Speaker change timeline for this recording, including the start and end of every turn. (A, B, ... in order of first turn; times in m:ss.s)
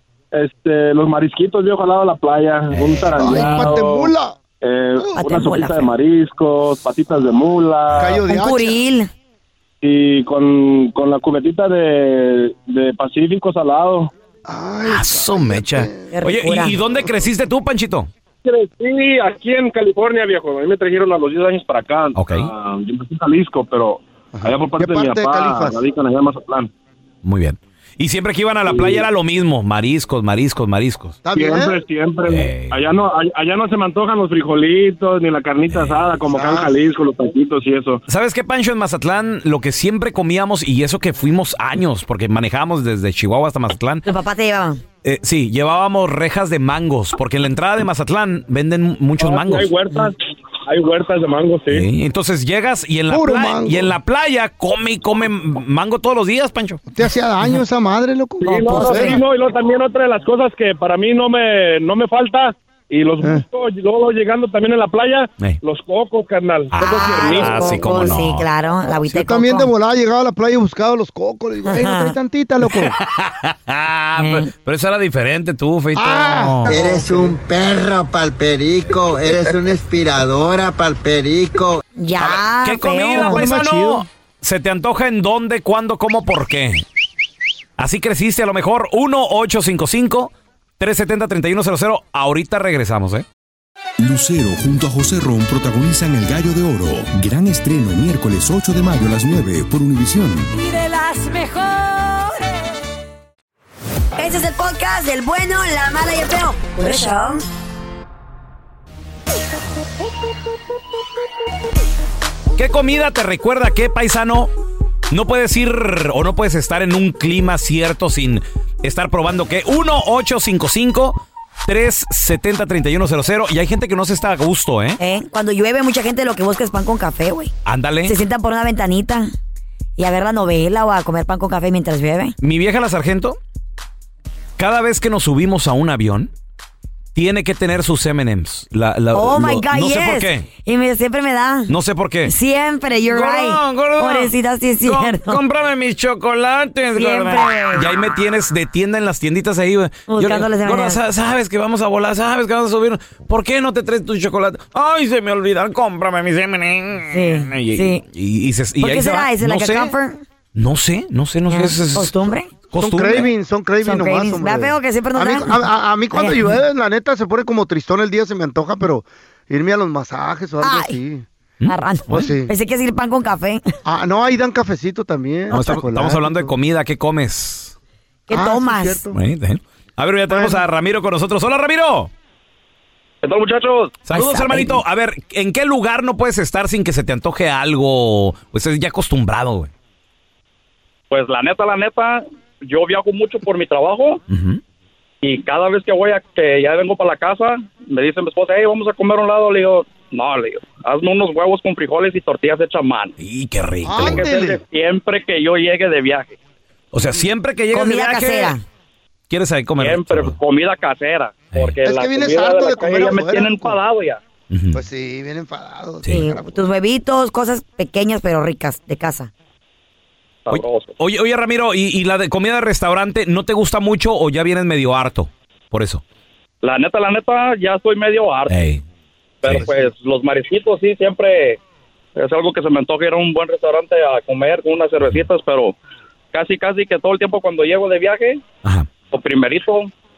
0:00.3-0:08.2 A
0:02.7-0:03.6 B
0:03.2-0:04.4 C
0:05.1-0:05.9 D
0:07.9-0:08.8 C
0:08.3-0:09.1 D
0:09.8-0:14.1 A
0:14.5-0:16.1 C
0:14.8-0:18.1 B
0:16.1-0:16.8 D
0:16.9-0:17.2 C
0:18.4-0:26.7 A
0:22.2-0:22.5 B
0:24.3-0:25.8 C
0:27.2-0:31.2 B
0:28.7-0:29.1 A
0:31.2-0:31.8 C
0:31.3-0:38.0 A
0:32.3-0:32.8 B
0:35.7-0:36.1 B
0:36.3-0:36.7 C
0:38.1-0:44.1 B
0:44.1-0:44.8 D
0:45.0-0:49.7 B
0:49.2-0:51.9 A
0:51.7-0:56.8 B
0:53.1-0:54.0 C
0:56.9-0:59.2 C
0:58.4-1:08.1 A
0:58.6-0:59.2 D
1:06.7-1:08.5 B
1:06.8-1:09.7 D
1:09.0-1:13.0 C
1:11.7-1:12.1 D
1:12.7-1:16.8 B
1:14.2-1:14.5 D
1:16.0-1:17.4 C
1:16.7-1:21.8 E
1:22.0-1:23.4 D
1:22.2-1:26.8 B
1:23.1-1:24.1 C
1:27.8-1:33.3 B
1:34.0-1:40.6 F
1:40.6-1:42.4 D
1:44.2-1:47.4 D
1:52.6-1:54.5 B
1:55.1-2:05.0 B
2:05.0-2:07.5 D
2:07.7-2:08.2 B
2:08.0-2:09.3 D
2:10.0-2:12.4 D
2:12.4-2:13.4 B
2:14.6-2:16.3 B
2:17.2-2:20.5 B
2:19.1-2:21.7 D
2:21.7-2:22.3 B
2:22.2-2:25.4 D
2:23.1-2:40.0 B
2:27.0-2:27.9 D
2:30.1-2:31.0 D
2:37.1-2:38.0 D
2:38.8-2:40.2 D
2:40.6-2:43.3 B
2:41.5-2:42.5 D
2:42.7-2:51.3 C
2:43.8-2:45.6 D
2:46.1-2:46.4 D
2:50.6-2:51.0 D
2:51.7-2:53.6 D
2:52.1-2:52.5 C
2:53.8-2:56.5 C
2:55.5-2:57.8 B
2:58.3-2:59.0 D
2:58.3-2:59.2 C
2:59.1-3:02.1 B
3:00.3-3:00.6 C
3:03.2-3:04.1 G
3:04.1-3:09.7 B
3:04.1-3:04.8 D
3:11.1-3:14.2 G
3:14.3-3:14.6 B
3:15.2-3:23.2 G
3:23.2-3:24.3 B
3:23.8-3:24.6 C
3:24.0-3:26.4 G
3:26.9-3:28.6 B
3:27.7-3:28.6 D
3:29.3-3:30.4 B
3:29.8-3:34.2 G
3:31.8-3:33.8 C
3:34.5-3:34.8 B
3:34.7-3:36.6 C
3:36.1-3:39.3 D
3:40.5-3:40.9 G
3:40.5-3:46.0 B
3:46.6-3:48.6 G
3:48.5-3:48.8 B
3:49.4-3:51.6 G
3:49.4-3:49.7 B
3:49.5-3:49.8 C
3:52.2-3:55.8 G
3:56.3-3:58.4 G
3:59.1-3:59.9 G